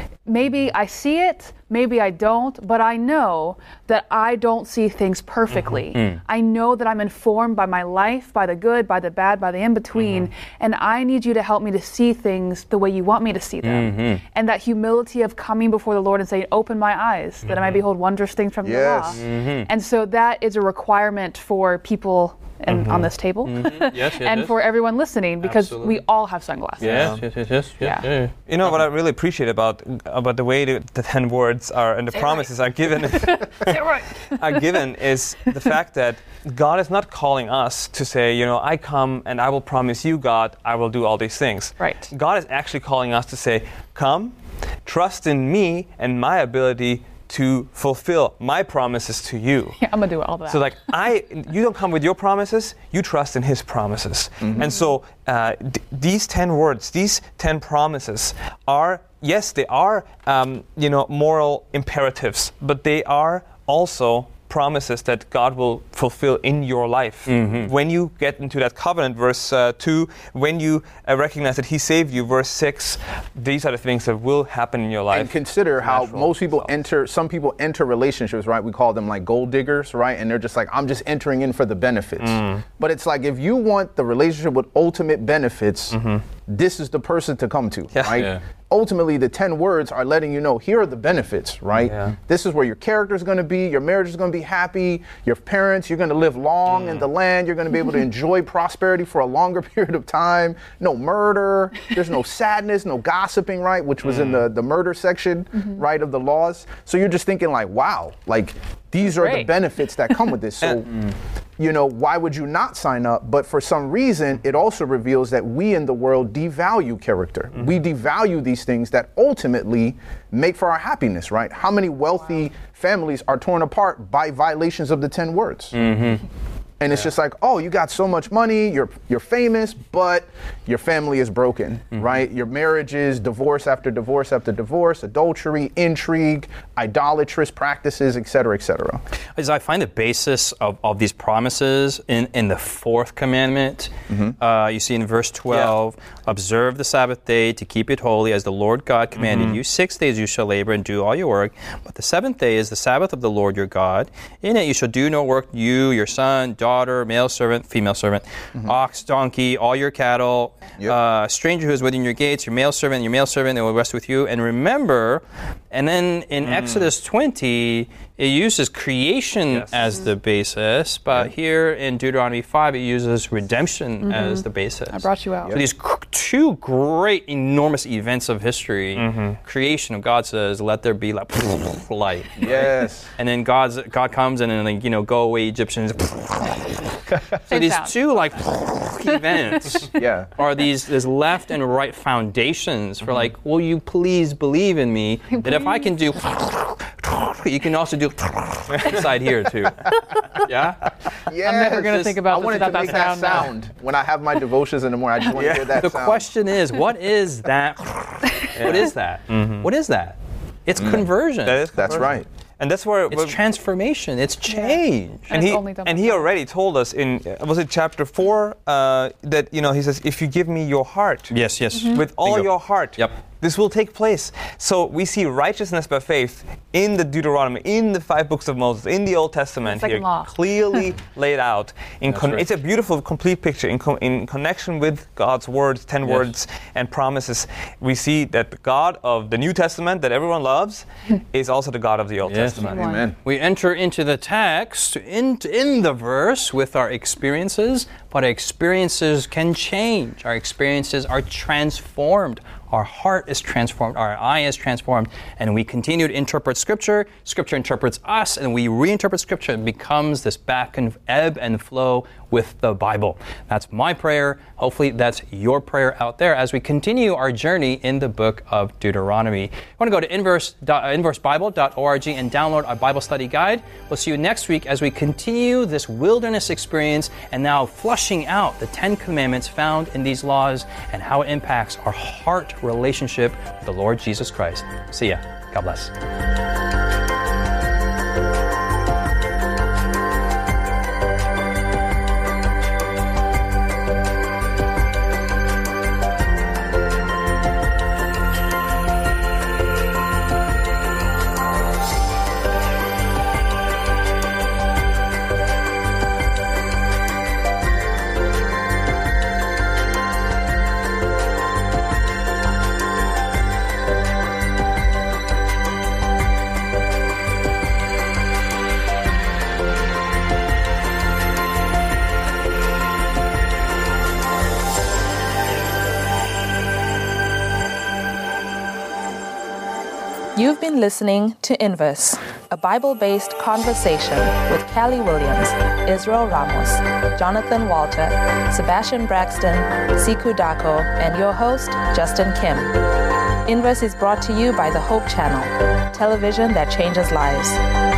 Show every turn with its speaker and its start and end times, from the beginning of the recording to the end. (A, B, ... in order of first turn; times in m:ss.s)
0:00.3-0:27.2 A
0:05.9-0:06.2 B
0:13.6-0:14.2 B
0:17.4-0:17.8 B
0:18.6-0:19.2 C
0:19.2-0:19.7 B
0:22.7-0:23.1 D
0:23.4-0:24.6 B
0:25.4-0:26.0 B
0:26.8-0:28.3 B
0:26.8-0:27.2 D
0:27.8-0:28.1 A
0:28.5-0:49.8 D
0:32.1-0:32.5 A
0:33.0-0:34.7 A
0:41.8-0:42.1 A
0:49.8-0:50.6 A
0:50.5-1:16.7 D
0:54.4-0:54.7 C
1:07.3-1:07.7 B
1:15.1-1:50.9 C
1:22.2-1:22.6 D
1:25.9-1:26.2 D
1:27.9-1:28.3 D
1:28.1-1:28.4 B
1:31.8-1:32.2 D
1:49.1-1:49.5 A
1:51.6-2:05.8 C
2:05.7-2:06.2 B
2:06.8-2:19.0 C
2:19.4-3:21.1 B
2:24.1-2:24.4 C
2:29.2-2:29.6 D
2:46.4-2:46.9 D
2:49.5-2:49.9 D
2:54.0-2:55.6 A
2:59.0-2:59.4 D
3:02.4-3:03.1 C
3:07.5-3:07.9 A
3:10.0-3:10.3 C
3:15.3-3:15.9 A
3:21.3-3:26.3 C
3:21.4-3:23.5 A
3:21.7-3:22.2 B
3:25.3-3:25.9 D
3:25.7-3:32.1 B
3:28.6-3:29.7 D
3:30.8-3:31.1 C
3:31.4-3:33.4 D
3:31.7-3:32.2 C
3:33.1-3:35.3 B
3:34.5-3:34.8 A
3:35.3-3:36.3 A
3:35.3-3:41.3 D
3:41.3-3:43.1 B
3:41.7-3:42.0 A
3:41.9-4:02.8 D
3:49.6-3:50.9 A
3:52.1-3:52.5 B
3:56.0-3:56.3 B
4:02.2-4:45.9 B
4:02.5-4:03.2 C
4:02.6-4:03.1 A
5:30.4-5:42.7 E
5:43.5-5:47.6 E